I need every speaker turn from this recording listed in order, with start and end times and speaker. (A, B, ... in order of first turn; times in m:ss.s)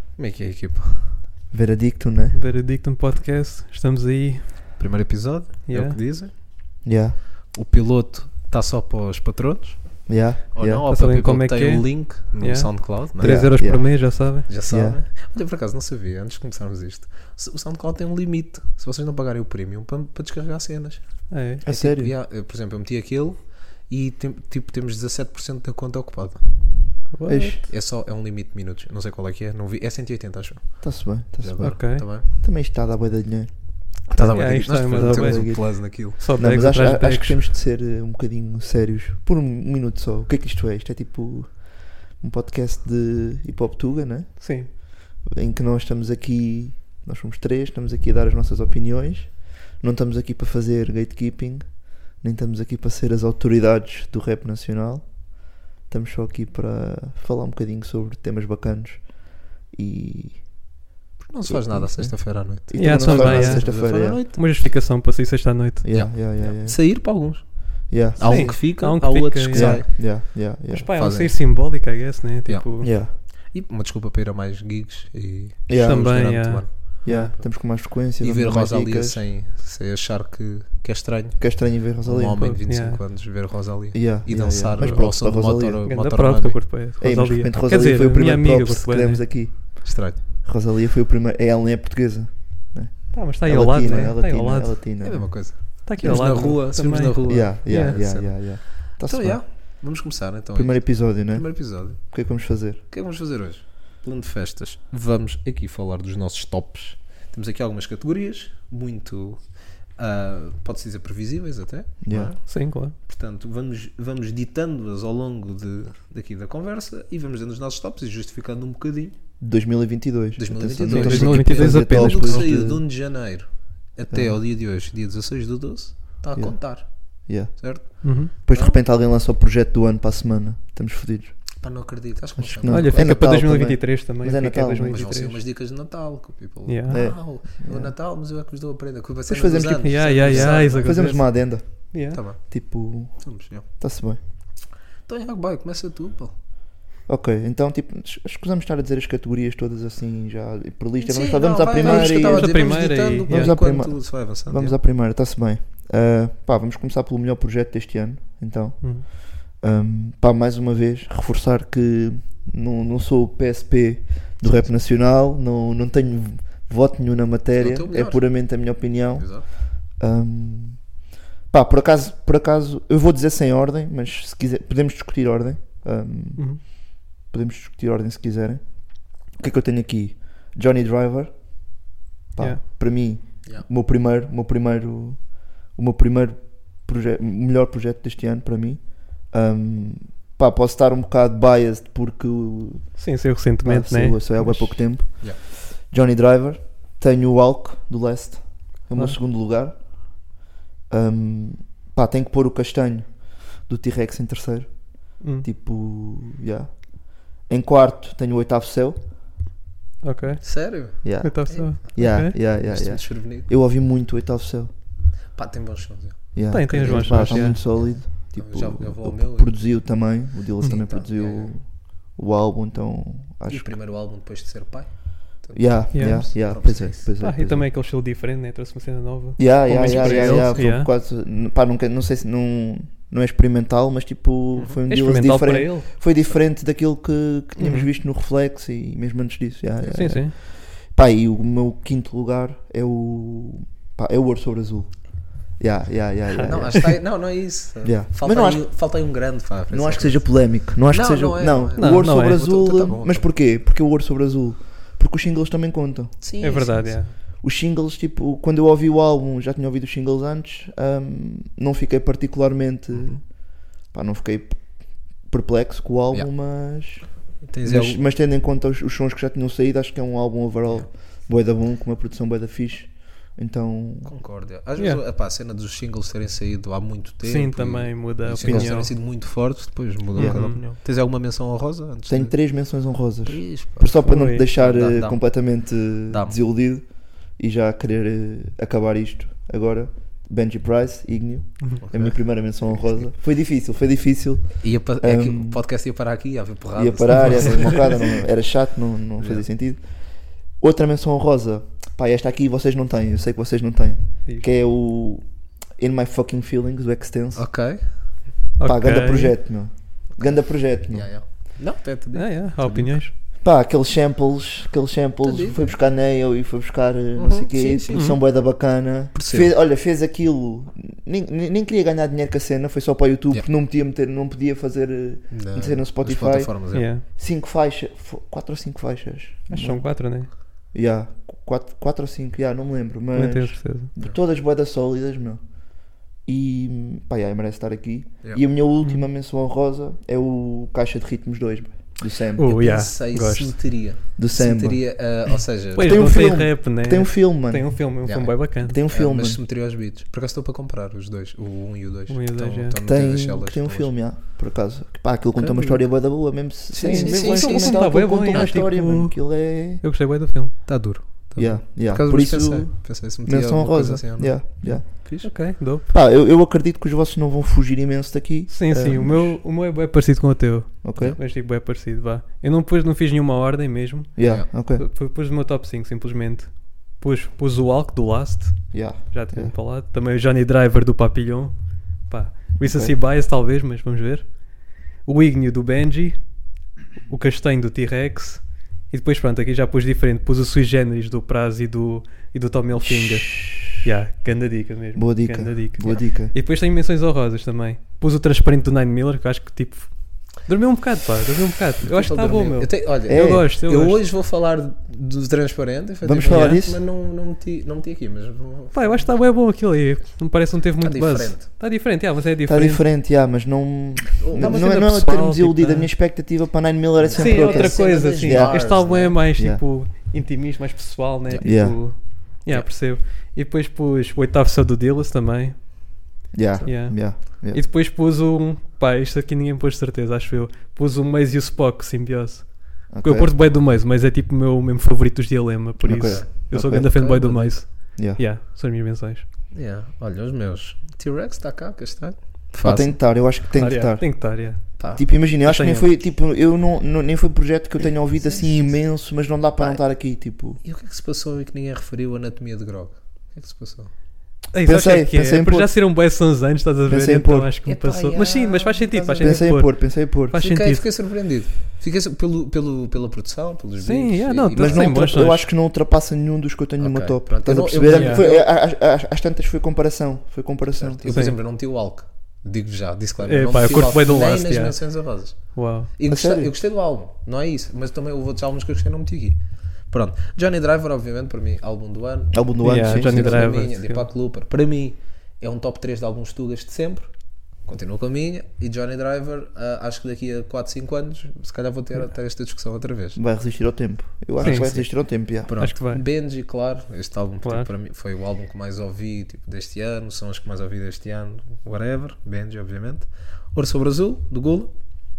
0:00.2-0:01.2 A
0:01.5-0:02.4 B
0:02.4-0:04.7 C
0:04.8-0:06.3 A
0:05.7-0:06.0 C
0:06.8-0:07.2 B
0:07.5-0:13.6 A
0:10.1-0:10.9 B
0:10.9-0:14.5 C
0:13.2-0:15.0 B
0:14.5-0:27.0 A
0:21.3-0:21.6 C
0:21.6-0:22.1 B
0:27.1-0:27.6 C
0:27.3-0:27.6 B
0:27.7-0:32.3 A
0:30.8-0:55.3 B
0:31.6-0:32.1 C
0:34.1-0:36.2 A
0:34.3-0:37.4 C
0:44.4-0:44.7 C
0:55.9-1:00.5 B
1:01.2-1:04.4 A
1:01.4-1:04.2 B
1:02.8-1:05.8 C
1:05.8-1:06.8 B
1:05.9-1:10.3 A
1:07.9-1:08.8 B
1:08.2-1:10.0 C
1:09.5-1:10.9 B
1:10.7-1:12.9 C
1:10.9-1:17.6 A
1:12.8-1:13.1 B
1:15.7-1:16.3 B
1:15.8-1:17.3 C
1:17.0-1:19.2 B
1:18.2-1:26.7 A
1:21.4-1:22.4 B
1:22.4-1:23.0 C
1:23.9-1:25.8 B
1:24.8-1:25.0 C
1:25.9-1:29.2 C
1:27.0-1:39.8 B
1:29.8-1:30.2 A
1:33.1-1:34.8 C
1:35.0-1:42.3 A
1:35.8-1:38.0 C
1:40.6-1:42.8 B
1:42.9-1:49.4 A
1:50.0-1:59.2 A
1:52.0-1:52.3 B
1:52.5-1:53.0 C
1:59.4-2:02.8 B
2:00.4-2:08.8 A
2:00.9-2:02.5 C
2:04.1-2:04.4 B
2:06.4-2:11.4 B
2:08.0-2:08.3 C
2:11.6-2:13.2 A
2:12.4-2:14.9 B
2:12.7-2:15.4 C
2:14.9-2:21.2 A
2:16.7-2:17.0 C
2:16.9-2:17.9 B
2:19.3-2:21.9 B
2:19.8-2:21.3 C
2:21.9-2:22.2 C
2:22.1-2:23.6 A
2:22.5-2:24.2 B
2:25.1-2:26.3 A
2:27.1-2:32.7 B
2:31.0-2:34.8 A
2:31.8-2:33.5 C
2:33.3-2:50.8 B
2:47.6-2:49.4 A
2:51.5-2:56.7 B
2:57.2-2:58.6 B
2:59.2-3:01.3 B
3:02.3-3:13.0 B
3:13.0-3:14.8 C
3:13.6-3:19.8 B
3:20.9-3:26.8 B
3:25.2-3:25.5 C
3:27.4-3:29.0 B
3:30.0-3:32.3 C
3:30.4-3:33.5 A
3:31.0-3:34.7 B
3:35.3-3:39.9 A
3:36.4-3:43.8 B
3:36.5-3:37.6 C
3:40.6-3:41.5 A
3:43.5-3:47.1 A
3:45.6-3:47.7 B
3:45.9-3:46.2 C
3:47.2-3:50.9 C
3:49.4-4:05.0 B
3:49.7-3:50.7 A
3:54.9-3:55.9 C
3:57.6-3:57.9 C
3:59.8-4:00.4 C
4:05.6-4:07.0 B
4:06.3-4:06.8 C
4:06.5-4:13.3 A
4:07.8-4:08.7 B
4:09.7-4:16.1 B
4:11.8-4:12.6 C
4:16.2-4:17.0 A
4:16.4-4:17.1 C
4:17.4-4:23.2 B
4:22.9-4:23.2 A
4:23.9-4:24.6 B
4:25.3-4:27.1 B
4:27.5-4:28.0 A
4:27.6-4:34.1 B
4:34.0-4:42.4 A
4:37.2-4:38.9 C
4:38.4-4:38.9 B
4:40.2-4:40.6 B
4:40.2-4:40.6 C
4:42.1-4:55.6 B
4:43.3-4:46.4 A
4:44.0-4:44.5 C
4:51.8-4:53.1 A
4:54.6-4:58.2 A
4:56.8-4:59.9 B
4:57.2-4:57.5 C
4:59.2-4:59.4 A
5:00.5-5:05.2 B
5:05.8-5:07.5 B
5:07.4-5:08.4 A
5:08.6-5:09.4 C
5:08.6-5:11.1 B
5:10.1-5:13.1 A
5:12.1-5:13.1 C
5:13.4-5:29.9 B
5:15.2-5:15.8 A
5:17.2-5:18.4 A
5:17.9-5:18.2 C
5:19.1-5:19.5 A
5:25.3-5:26.9 A
5:26.7-5:27.0 C
5:29.5-5:30.3 C
5:30.7-5:35.4 B
5:33.2-5:33.9 C
5:36.2-5:42.6 B
5:42.4-5:43.5 C
5:42.5-5:46.3 A
5:44.2-5:45.1 B
5:45.8-5:48.8 C
5:45.8-5:47.8 B
5:48.0-5:53.9 A
5:48.6-5:49.4 B
5:52.1-5:52.8 C
5:52.8-5:59.8 B
5:55.4-5:56.2 A
5:56.7-5:58.6 A
5:56.8-6:00.8 C
6:00.7-6:05.5 A
6:01.4-6:05.2 B
6:05.2-6:05.8 C
6:05.9-6:09.4 B
6:08.5-6:21.6 C
6:10.8-6:11.2 B
6:14.2-6:14.8 B
6:18.7-6:19.5 B
6:22.1-6:24.4 C
6:22.6-6:22.9 B
6:25.0-6:26.2 C
6:27.0-6:44.0 C
6:32.8-6:33.7 B
6:35.0-6:36.3 B
6:41.8-6:49.2 A
6:43.1-6:43.5 B
6:46.0-6:46.8 B
6:46.3-6:46.6 C
6:48.7-6:52.9 C
6:50.8-6:51.5 A
6:52.5-6:58.7 B
6:54.2-6:55.0 A
6:54.4-6:55.9 C
6:57.0-6:59.2 A
6:57.2-7:06.0 C
6:59.4-6:59.6 B
7:01.4-7:01.8 B
7:06.3-7:07.6 B
7:06.6-7:19.3 C
7:12.9-7:13.4 B
7:15.8-7:17.0 B
7:16.0-7:17.7 A
7:18.0-7:18.2 B
7:19.5-7:23.2 A
7:22.6-7:24.4 B
7:23.5-7:24.8 C
7:24.8-7:25.1 A
7:25.0-7:30.6 B
7:25.4-7:25.9 C
7:28.1-7:29.0 A
7:30.6-7:33.9 A
7:34.5-7:40.8 C
7:34.6-7:35.7 B
7:36.9-7:37.5 B
7:37.6-7:39.7 A
7:39.2-7:40.3 B
7:40.4-7:45.0 A
7:43.8-7:45.5 C
7:44.5-7:51.0 B
7:46.8-7:48.5 A
7:47.9-7:48.3 C
7:50.7-8:07.1 A
7:51.1-7:51.4 C
7:53.2-7:54.8 C
7:55.4-7:55.9 C
7:56.1-7:56.5 B
8:02.3-8:03.6 B
8:02.6-8:04.1 C
8:07.6-8:13.2 A
8:13.2-8:15.6 B
8:14.4-8:24.7 A
8:14.4-8:14.7 C
8:15.6-8:16.0 C